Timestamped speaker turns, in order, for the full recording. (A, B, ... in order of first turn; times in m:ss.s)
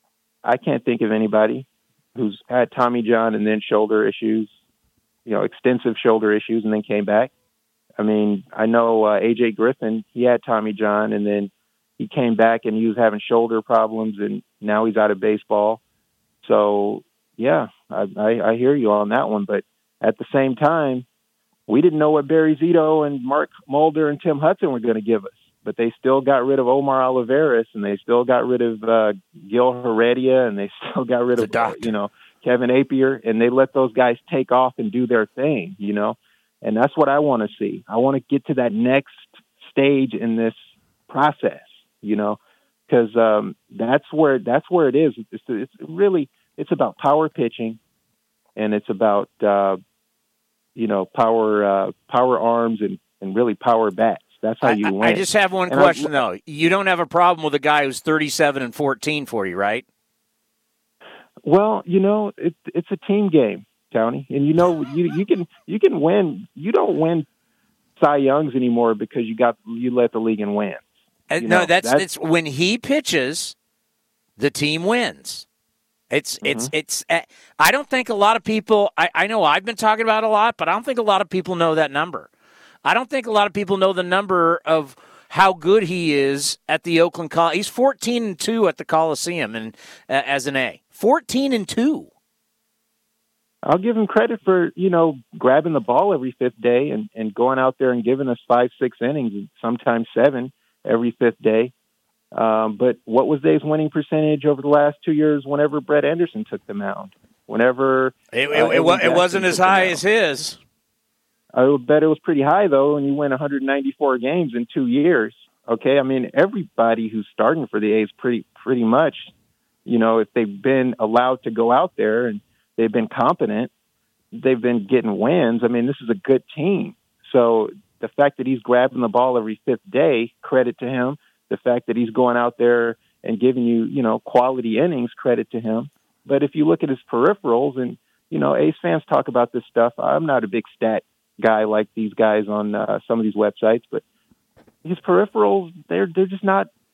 0:00.4-0:04.5 A
0:05.3-0:07.3 A
0:08.0-0:15.8 A
0:16.4-0:21.0 A
0:21.7-0:40.6 A
0:31.4-0:31.9 B
0:41.1-0:47.8 A
0:48.6-0:49.8 A
0:50.8-0:56.2 A
0:54.6-0:59.8 B
1:01.4-1:07.3 A
1:08.0-1:10.8 A
1:11.3-1:13.6 B
1:11.4-1:12.1 A
1:14.4-1:15.4 B
1:16.1-1:22.3 B
1:16.4-1:16.7 A
1:22.8-1:32.1 B
1:33.7-1:41.7 A
1:42.3-1:50.0 A
1:48.3-1:50.6 B
1:51.6-1:59.3 A
1:59.9-2:03.7 A
2:04.3-2:24.0 A
2:24.8-2:26.7 A